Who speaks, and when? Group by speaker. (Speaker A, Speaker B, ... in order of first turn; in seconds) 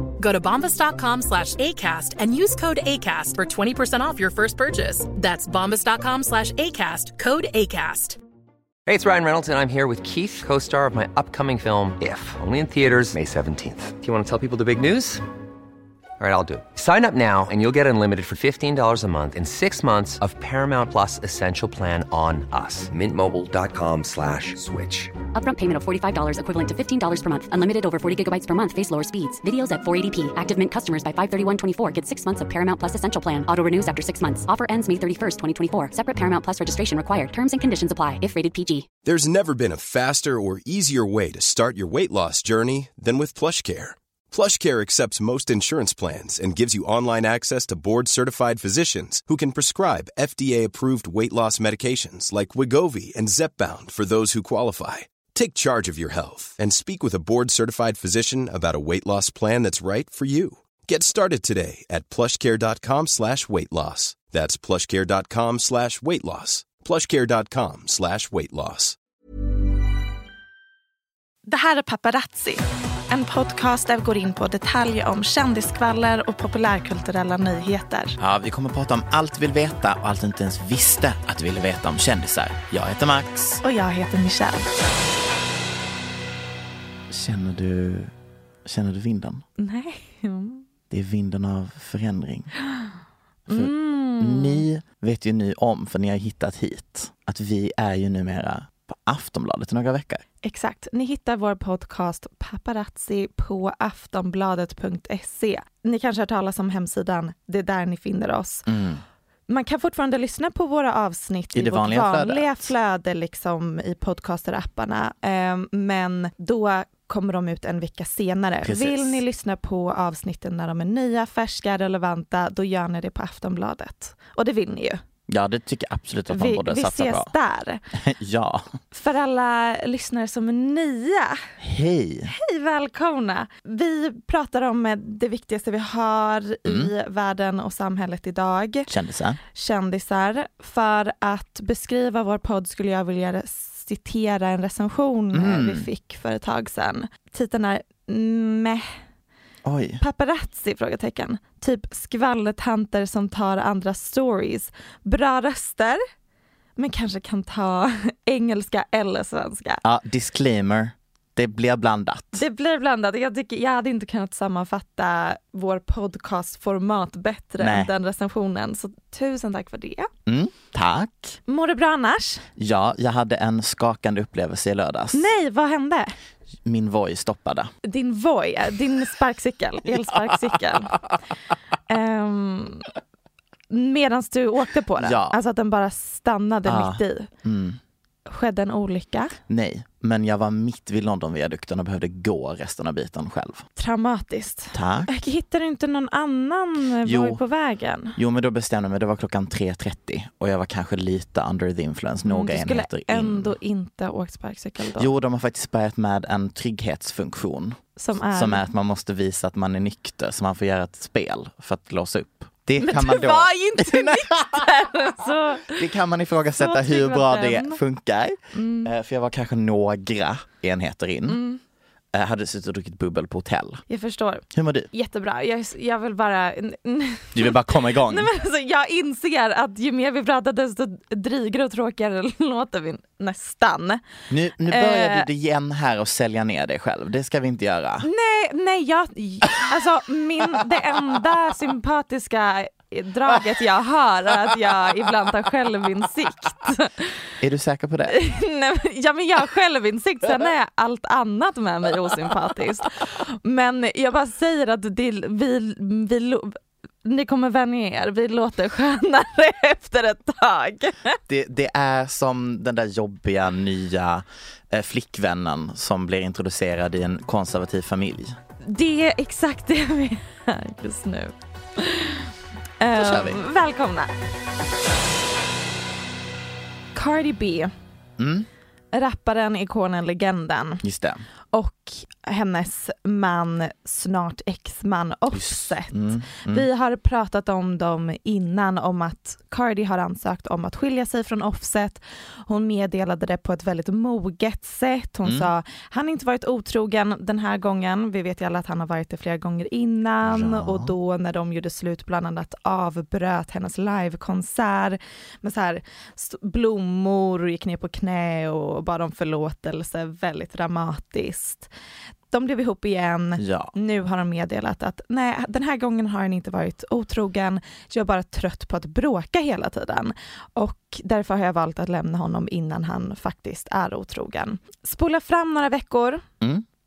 Speaker A: 0.2-8.2
Speaker B: 8.9-15.2, 16.2-25.1
Speaker C: 25.3-38.9
Speaker D: 39.0-69.0
Speaker E: 71.5-78.2, 83.6-84.7, 89.6-90.6, 93.5-94.7, 100.4-108.7, 109.5-125.0, 126.3-127.8, 128.9-131.4, 132.3-138.9, 139.5-148.9, 150.0-156.0, 156.8-159.8, 162.3-170.1, 171.5-172.5, 175.1-176.1, 177.8-180.9, 181.9-182.9, 183.7-187.3, 188.3-189.4, 193.8-198.2, 202.2-205.1, 208.0-208.6, 212.8-215.8, 216.6-217.8, 218.5-218.9, 221.3-221.6, 223.9-234.0, 234.7-235.3, 238.0-247.1, 248.1-261.2, 268.6-272.3, 272.8-274.1, 276.9-277.7, 278.9-280.8, 281.5-311.7, 312.3-326.2
Speaker F: 78.2-83.6, 87.1-88.1, 88.7-89.5, 90.9-92.5, 93.5-100.2, 108.7-109.0, 111.5-112.7, 118.6-119.2, 125.3-127.3, 127.9-128.8, 131.6-132.3, 136.7-136.9, 138.9-139.4, 145.3-145.9, 149.6-150.0, 159.8-162.4, 167.6-167.9, 170.3-171.4, 172.6-175.3, 176.7-177.7, 185.0-185.4, 186.7-187.8, 189.5-193.6, 194.7-195.2, 197.1-197.4, 198.2-203.6, 205.0-207.8, 208.3-214.6, 215.7-221.4, 222.1-223.8, 224.5-224.9, 227.3-228.3, 234.3-238.1, 247.4-248.2, 261.3-268.4, 272.9-273.4, 278.2-278.5, 280.8-281.2, 285.3-286.7, 300.2-300.9, 313.4-313.7